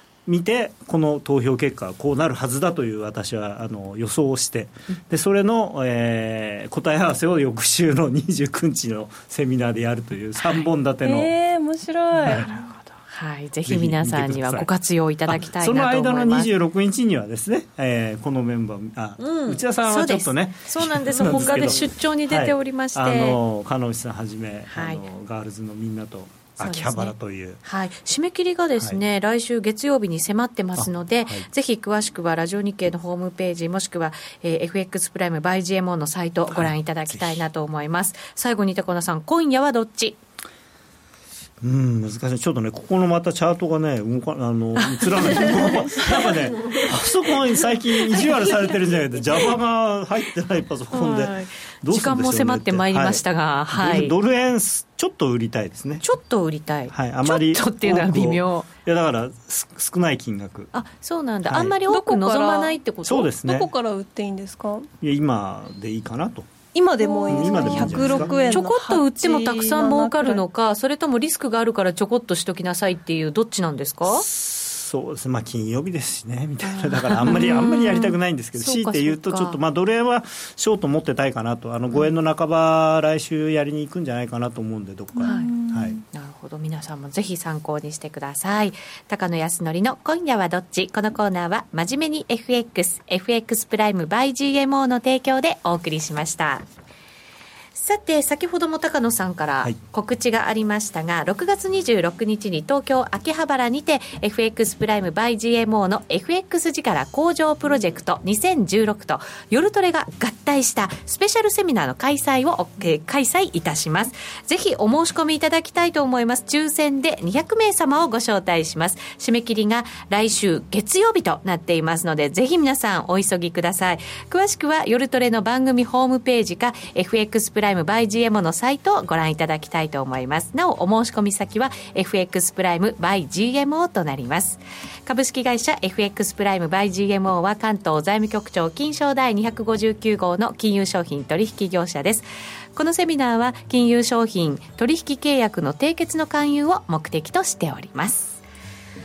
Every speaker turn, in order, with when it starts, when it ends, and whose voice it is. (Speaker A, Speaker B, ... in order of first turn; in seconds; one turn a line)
Speaker A: 0.2-11.3
Speaker B: 10.4-10.7
Speaker C: 11.0-12.4
Speaker A: 12.2-12.6
Speaker B: 12.2-16.5
Speaker A: 13.6-14.7
Speaker A: 15.3-27.6
Speaker B: 19.8-23.4
Speaker B: 24.7-25.0
Speaker B: 26.6-40.2
Speaker A: 30.8-31.5
Speaker A: 36.5-37.5
Speaker A: 41.6-56.0
Speaker B: 44.8-46.9
Speaker B: 48.0-48.5
Speaker B: 50.9-54.1
Speaker B: 56.0-58.7
Speaker A: 56.9-60.7
Speaker B: 60.7-63.3
Speaker A: 61.5-61.8
Speaker C: 61.9-62.8
Speaker A: 63.0-63.7
Speaker C: 63.4-64.9
Speaker A: 65.0-66.5
Speaker C: 66.7-70.4
Speaker B: 67.0-74.2
Speaker A: 67.2-68.6
Speaker A: 74.0-86.0
Speaker B: 76.6-79.6
Speaker C: 85.2-86.0
Speaker B: 85.2-85.5
Speaker B: 86.1-96.6
Speaker B: 97.7-148.4